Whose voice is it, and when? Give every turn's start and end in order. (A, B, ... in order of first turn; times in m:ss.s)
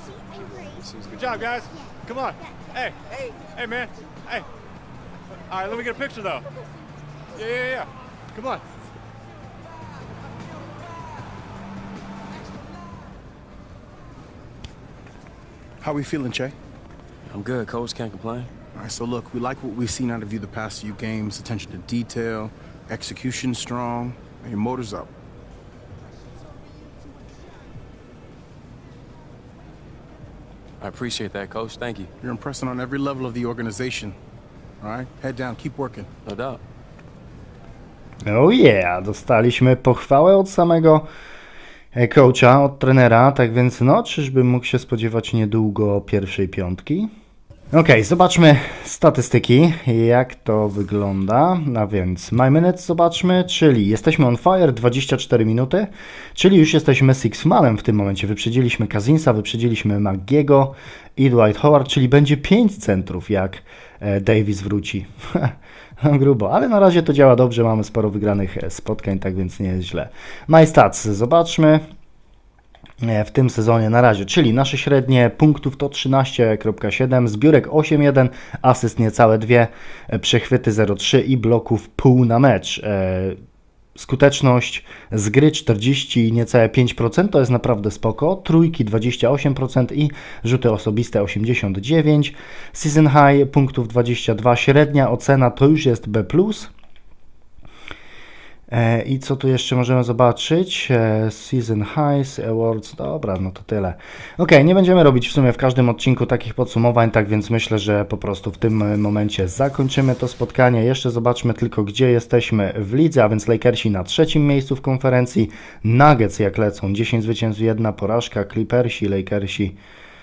0:00.4-0:01.5 A
0:01.1-0:02.9 B
0:03.6-0:04.4 B
0:05.5-0:06.4 B
0:07.4-0:08.6 B
0:15.8-0:16.6 C
0:17.3-0:18.5 A
0:18.7-0:25.1 C
0:30.8-0:32.1 A
0:32.2-0:34.2 C
0:34.8-0:36.1 C
0:36.3-0:36.6 A
0:38.3-0:41.1 D
0:41.9-0:47.1 D
0:47.7-1:11.8 D
1:13.0-1:23.4 D
1:24.0-1:36.7 D
1:38.7-1:59.8 D